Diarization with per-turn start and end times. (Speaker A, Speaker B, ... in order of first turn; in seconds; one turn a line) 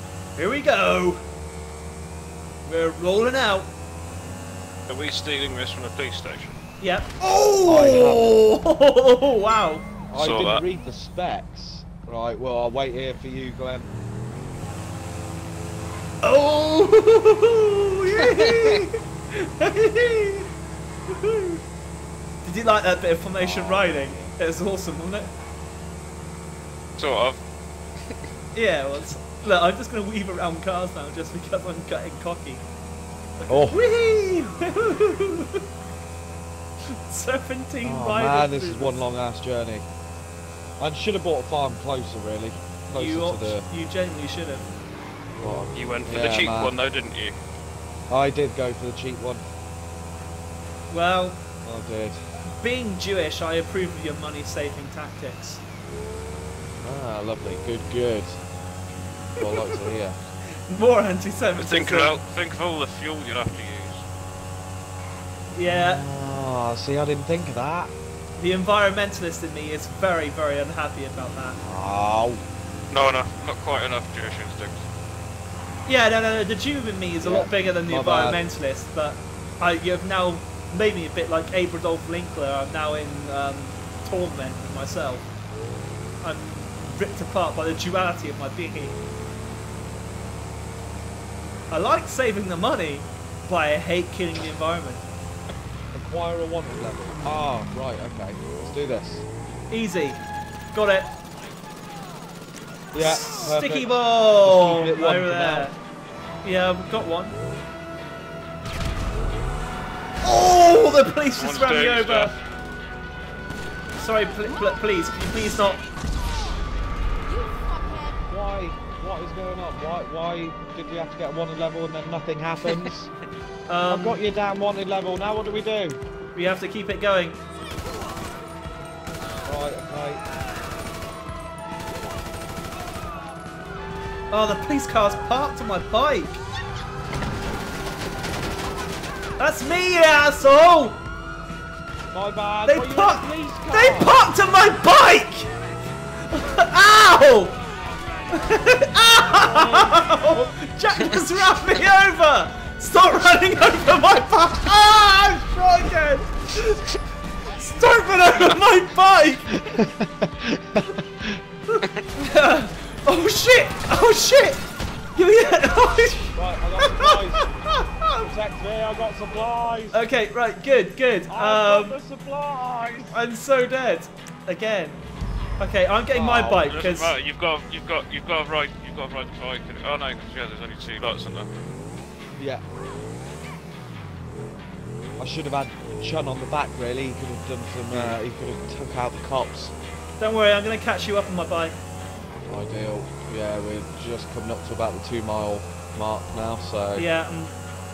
Speaker A: 0.4-1.2
Speaker A: 2.6-3.7
Speaker B: 4.9-6.6
Speaker A: 6.8-9.9
Speaker C: 7.6-8.3
Speaker C: 10.1-13.9
Speaker B: 10.1-10.6
Speaker A: 16.2-20.5
Speaker A: 21.1-21.6
Speaker A: 22.4-25.3
Speaker C: 23.4-24.4
Speaker B: 27.0-27.4
Speaker A: 28.5-32.6
Speaker A: 33.4-35.6
Speaker C: 33.5-33.8
Speaker A: 36.9-39.0
Speaker C: 37.8-39.9
Speaker C: 40.8-43.6
Speaker A: 42.9-44.7
Speaker C: 45.4-46.7
Speaker B: 45.8-47.4
Speaker C: 48.1-49.4
Speaker A: 50.9-51.4
Speaker C: 51.6-52.2
Speaker A: 52.6-55.6
Speaker C: 56.8-58.4
Speaker C: 59.4-60.2
Speaker A: 59.4-59.8
Speaker A: 60.7-62.1
Speaker B: 61.6-64.0
Speaker A: 65.5-66.0
Speaker C: 65.6-67.9
Speaker A: 68.4-71.6
Speaker C: 71.6-72.4
Speaker B: 72.9-74.9
Speaker A: 75.9-85.3
Speaker C: 77.2-78.4
Speaker A: 86.2-89.0
Speaker A: 91.7-95.0
Speaker C: 95.9-99.2
Speaker A: 99.7-100.2
Speaker A: 100.7-101.1
Speaker C: 102.9-105.7
Speaker A: 102.9-105.8
Speaker A: 106.4-107.4
Speaker A: 110.2-112.3
Speaker B: 111.4-112.3
Speaker A: 114.0-115.8
Speaker C: 118.2-123.1
Speaker A: 123.7-124.2
Speaker C: 123.9-126.0
Speaker A: 126.3-127.4
Speaker C: 129.4-130.2
Speaker A: 134.3-136.4
Speaker A: 139.4-141.0
Speaker C: 142.1-144.2
Speaker A: 142.7-145.5
Speaker A: 146.2-147.6
Speaker A: 148.3-156.8
Speaker C: 149.3-150.5
Speaker A: 157.4-159.8
Speaker C: 159.5-161.4
Speaker A: 161.7-164.6
Speaker A: 165.1-168.3
Speaker C: 166.2-170.0
Speaker A: 169.9-172.0
Speaker C: 171.3-173.2
Speaker A: 173.1-175.0
Speaker A: 175.6-177.2
Speaker C: 176.1-176.7
Speaker B: 176.6-181.5
Speaker C: 182.3-182.6
Speaker C: 185.2-189.7
Speaker B: 187.9-188.2
Speaker A: 190.2-191.8
Speaker C: 192.5-197.0
Speaker A: 197.0-197.5